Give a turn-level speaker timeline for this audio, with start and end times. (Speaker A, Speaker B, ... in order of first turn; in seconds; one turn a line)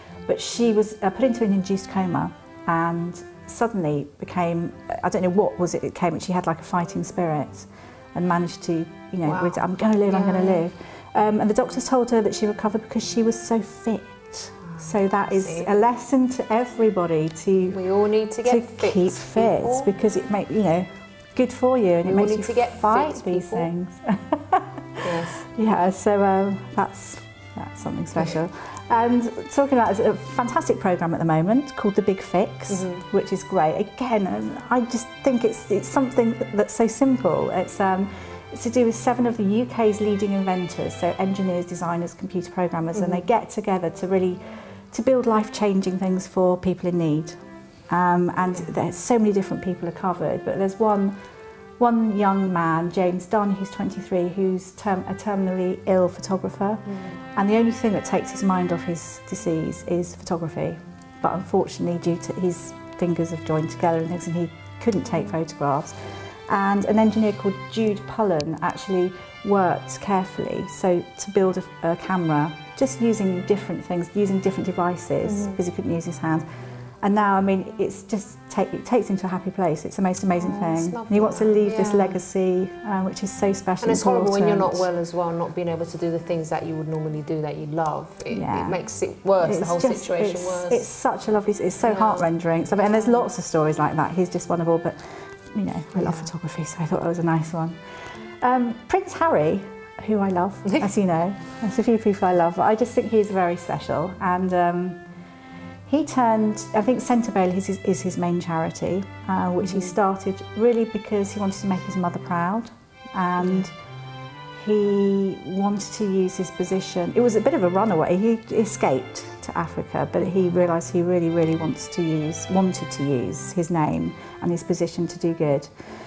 Speaker A: 0.2-17.8
Speaker B: 9.2-10.6
Speaker B: 14.6-15.7
Speaker B: 17.7-19.9
Speaker A: 18.4-44.4
Speaker B: 22.1-23.7
Speaker B: 25.0-25.4
Speaker B: 32.7-33.0
Speaker B: 42.9-43.2
Speaker A: 44.9-51.2
Speaker A: 51.8-76.5
Speaker B: 56.9-57.2
Speaker B: 75.2-75.6
Speaker A: 77.0-84.9
Speaker B: 80.3-82.2
Speaker B: 83.8-90.9
Speaker A: 88.3-88.8
Speaker A: 89.4-97.8
Speaker B: 91.8-93.2
Speaker B: 95.9-96.3
Speaker A: 98.4-105.0
Speaker A: 105.8-113.7
Speaker B: 109.6-109.9
Speaker B: 113.4-113.7
Speaker A: 114.5-125.7